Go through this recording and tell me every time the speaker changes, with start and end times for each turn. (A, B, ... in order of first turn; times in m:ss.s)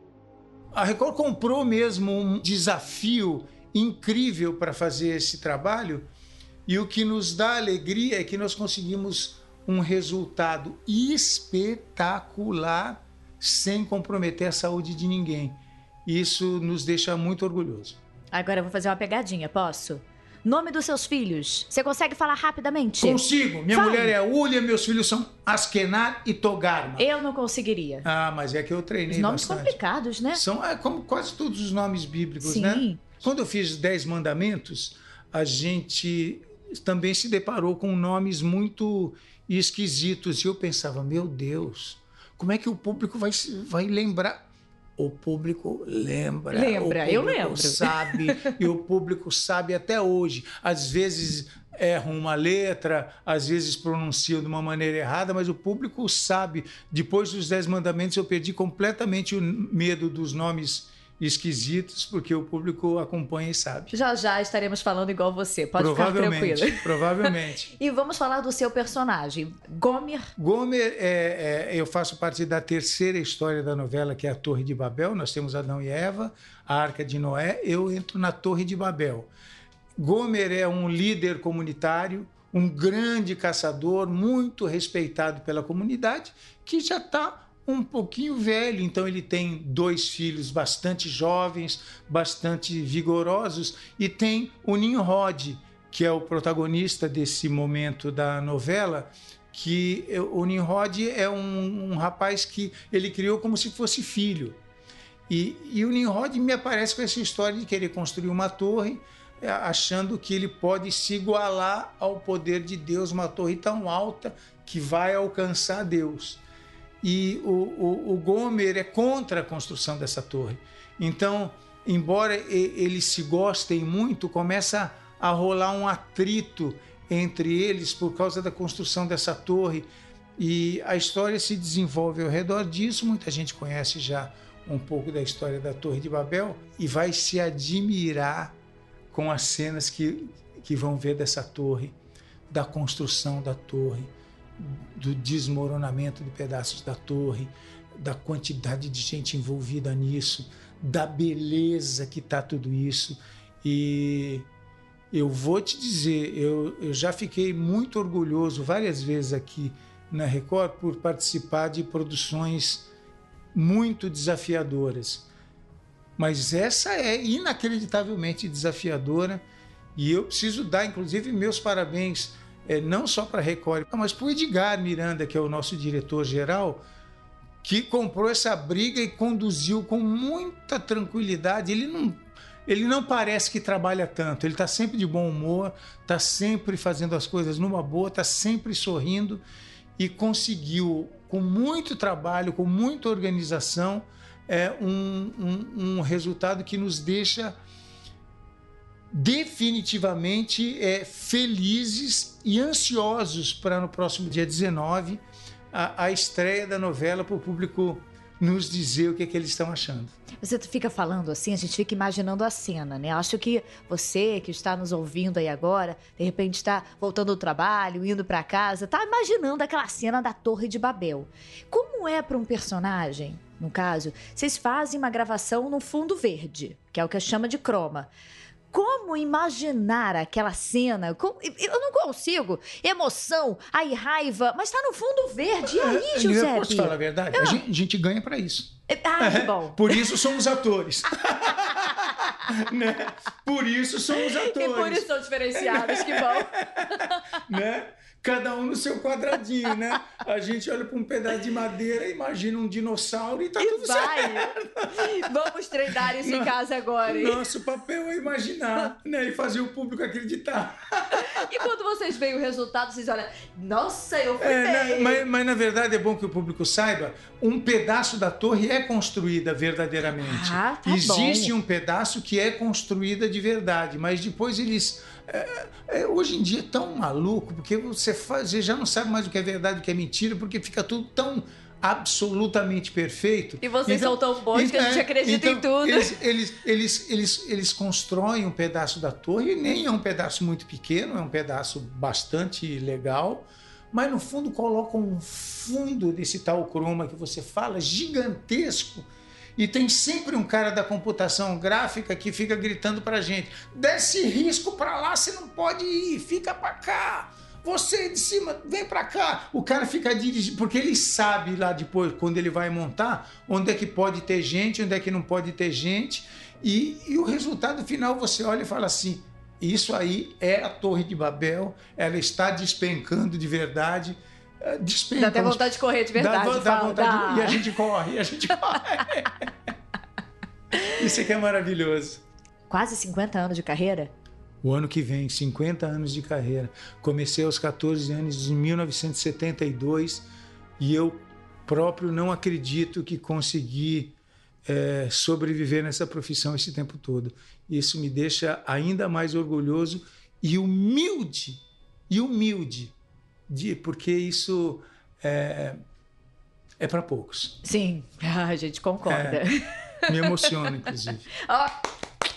0:00.7-0:06.1 A
0:06.7-0:18.0 A
0:18.3-0:24.1 B
0:23.0-0:27.1 A
0:27.0-0:28.1 B
0:28.0-0:29.8 A
0:29.1-0:30.4 B
0:30.3-1:03.9 A
0:32.4-0:33.0 B
0:46.5-0:48.6 B
1:03.9-1:10.3 B
1:05.8-1:07.7 A
1:10.4-1:19.3 A
1:20.0-1:44.6 A
1:45.3-1:56.4 A
1:57.0-2:18.5 A
2:19.1-2:22.0 A
2:22.5-2:34.5 A
2:35.1-2:42.9 A
2:43.5-2:45.3 A
2:46.2-2:49.4 A
2:50.0-2:56.8 A
2:57.6-3:09.4 A
3:10.0-3:17.6 A
3:19.1-3:30.2 A
3:30.4-3:48.1 B
3:48.7-3:57.6 B
3:55.6-4:15.3 A
3:58.9-4:00.2 B
4:01.5-4:02.4 B
4:04.4-4:07.4 B
4:13.6-4:17.4 B
4:15.9-4:16.5 A
4:17.0-4:21.4 A
4:21.1-4:25.2 B
4:24.4-5:25.6 A
4:30.2-4:31.5 B
4:43.6-4:46.1 B
5:25.2-5:27.6 B
5:26.1-5:29.5 A
5:30.9-5:32.2 A
5:32.7-5:34.1 B
5:34.6-5:40.3 A
5:40.8-5:52.9 A
5:53.5-5:55.8 A
5:56.8-5:57.6 A
5:57.6-6:00.8 B
5:59.0-5:59.4 A
6:00.1-6:01.3 A
6:01.4-6:01.8 B